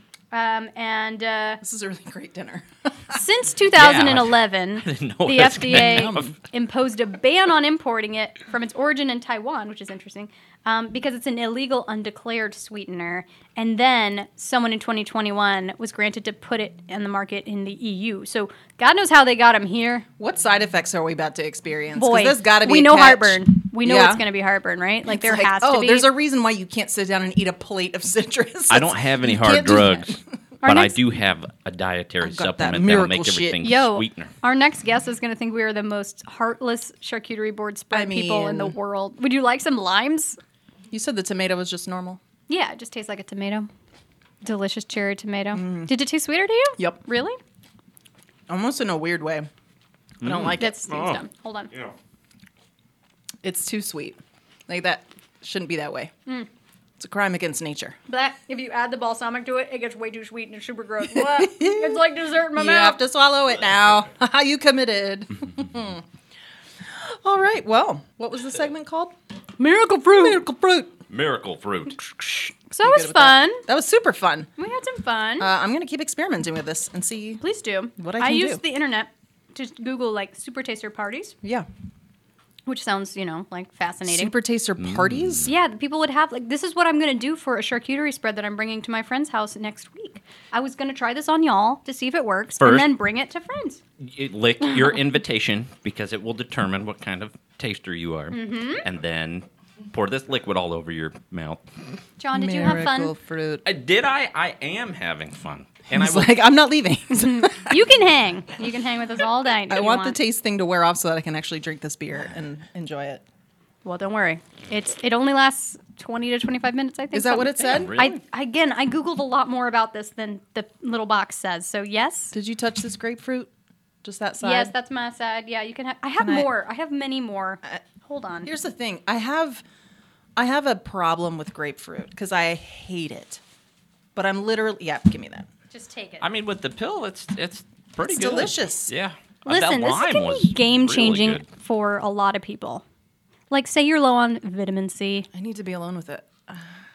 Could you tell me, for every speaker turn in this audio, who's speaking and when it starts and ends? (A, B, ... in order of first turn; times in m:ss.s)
0:00.3-0:01.6 A
0:01.6-0:03.2 B
0:03.1-0:20.0 A
0:03.8-0:06.3 C
0:05.4-0:06.4 B
0:20.2-0:24.2 B
0:22.0-0:26.1 A
0:25.1-0:30.2 B
0:28.7-0:34.3 C
0:30.6-0:31.0 A
0:32.2-0:33.6 B
0:33.6-0:40.4 A
0:37.9-0:38.8 B
0:40.9-0:42.2 B
0:42.5-0:43.7 A
0:44.4-0:47.4 A
0:45.5-0:45.9 B
0:46.8-0:47.0 B
0:48.5-0:49.5 B
0:50.2-0:51.9 C
0:50.2-0:50.8 B
0:50.6-0:51.7 A
0:53.4-0:56.1 B
0:57.0-0:58.0 B
0:58.1-1:03.0 A
1:01.1-1:06.0 B
1:06.9-1:09.1 B
1:09.6-1:10.4 A
1:10.0-1:10.9 B
1:11.1-1:12.0 C
1:12.0-1:13.6 A
1:12.8-1:14.5 B
1:14.6-1:15.5 A
1:15.4-1:17.4 B
1:17.4-1:21.3 A
1:18.0-1:18.6 B
1:22.7-1:24.3 A
1:24.0-1:25.5 B
1:24.8-1:25.5 C
1:25.4-1:33.8 A
1:32.6-1:32.9 C
1:34.0-1:41.8 C
1:38.3-1:38.8 A
1:42.2-1:43.1 A
1:42.3-1:43.6 B
1:43.6-1:46.3 C
1:45.9-1:47.8 B
1:47.1-1:50.2 A
1:49.7-1:53.2 B
1:53.8-2:02.3 A
1:57.1-1:58.2 B
1:57.6-1:58.2 C
2:02.3-2:03.5 B
2:04.0-2:04.7 B
2:04.4-2:08.5 A
2:06.2-2:06.5 B
2:08.4-2:09.6 B
2:10.4-2:13.4 B
2:14.1-2:15.5 B
2:15.7-2:16.2 A
2:16.2-2:21.4 C
2:18.0-2:18.9 B
2:19.4-2:22.8 A
2:23.5-2:25.3 A
2:25.3-2:26.7 B